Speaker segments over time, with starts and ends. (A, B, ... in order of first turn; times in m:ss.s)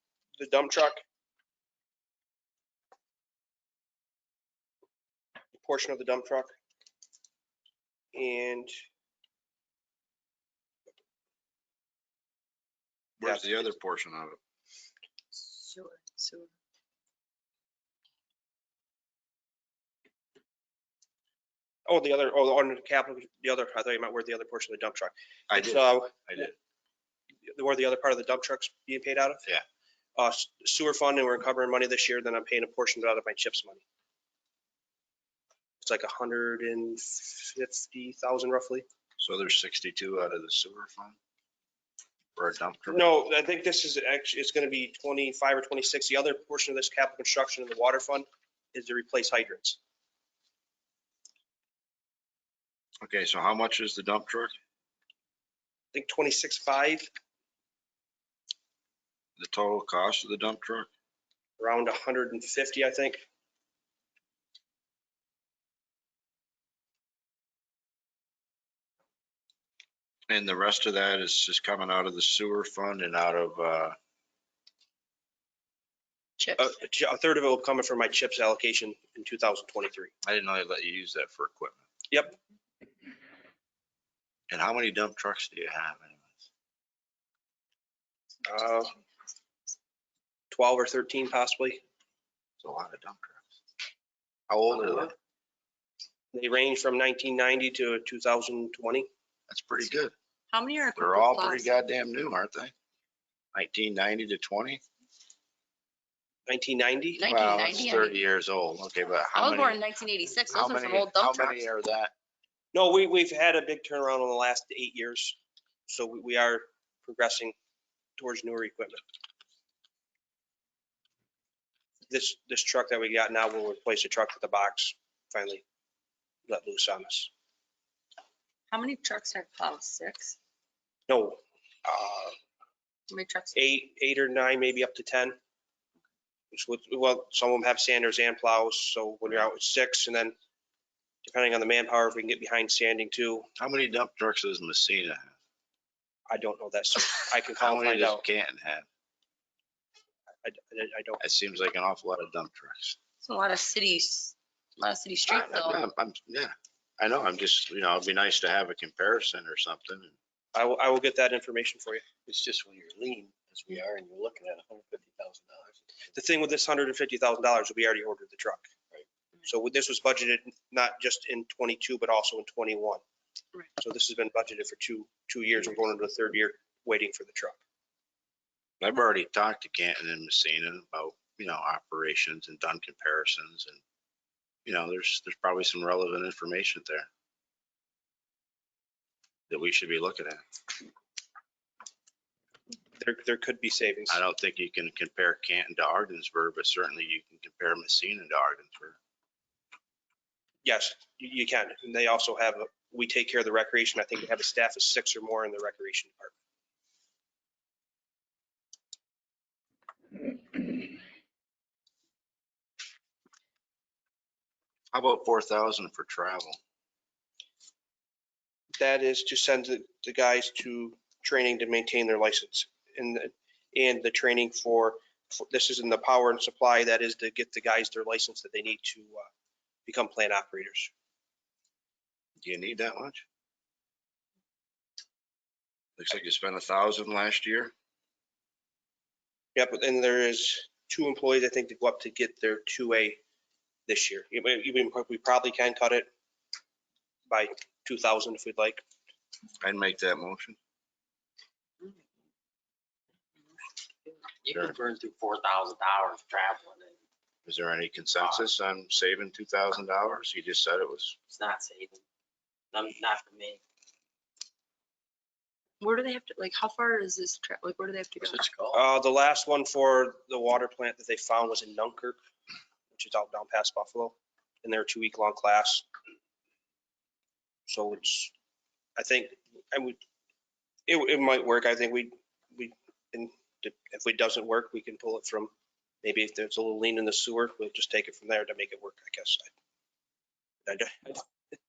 0:00.4-0:01.0 A
0:05.6-0:06.5 A
0:08.1-0:08.7 A
0:13.2-0:14.4 B
0:13.2-0:13.5 A
0:15.4-0:16.5 C
0:21.9-0:26.5 A
0:25.5-0:26.5 B
0:27.5-0:29.4 A
0:30.2-0:33.8 A
0:35.8-0:38.9 A
0:39.2-0:41.2 B
0:42.4-0:43.1 B
0:42.9-0:49.8 A
0:53.0-0:54.5 B
0:55.9-0:57.1 A
0:59.4-1:00.9 B
1:01.6-1:03.2 A
1:10.3-1:14.0 B
1:16.4-1:16.7 C
1:16.6-1:20.1 A
1:20.2-1:21.8 B
1:24.5-1:26.3 B
1:28.4-1:29.0 A
1:30.5-1:31.8 A
1:32.6-1:33.4 B
1:34.5-1:35.1 B
1:36.3-1:39.1 A
1:39.5-1:40.1 B
1:40.5-1:41.7 C
1:41.0-1:42.7 B
1:43.5-1:44.8 B
1:46.5-1:47.2 A
1:47.2-1:48.2 C
1:47.3-1:49.8 B
1:49.4-1:51.6 C
1:50.5-1:52.1 B
1:52.7-1:57.6 A
1:58.2-1:59.0 A
2:02.1-2:05.6 A
2:06.5-2:07.3 A
2:08.7-2:10.4 C
2:11.1-2:12.4 A
2:13.1-2:13.6 C
2:13.6-2:15.4 A
2:16.5-2:20.4 A
2:21.2-2:23.5 A
2:23.6-2:25.3 B
2:26.3-2:28.2 A
2:27.6-2:28.9 B
2:30.4-2:31.2 A
2:31.2-2:33.0 B
2:33.2-2:35.8 C
2:35.3-2:40.1 B
2:40.6-2:42.0 A
2:42.3-2:45.9 D
2:46.1-2:48.7 A
2:49.5-2:53.0 A
2:53.8-2:57.6 A
2:58.8-3:03.8 B
3:04.6-3:07.1 B
3:09.5-3:10.4 B
3:13.0-3:14.2 A
3:14.1-3:19.0 B
3:20.6-3:26.3 A
3:34.9-3:36.6 B
3:38.8-3:49.3 A
3:49.8-3:50.9 A
3:52.4-3:53.2 B
3:56.0-3:57.7 B
3:59.6-4:03.2 A
4:03.9-4:06.1 A
4:07.3-4:08.8 A
4:09.6-4:10.6 B
4:14.4-4:17.0 D
4:14.5-4:14.8 B
4:17.4-4:21.2 B
4:21.3-4:22.0 D
4:22.7-4:23.6 D
4:25.8-4:28.4 C
4:28.2-4:28.8 D
4:28.7-4:32.2 A
4:32.9-4:35.9 A
4:37.7-4:38.3 A
4:39.0-4:40.0 A
4:40.9-4:45.5 A
4:46.0-4:49.5 A
4:50.7-4:51.2 A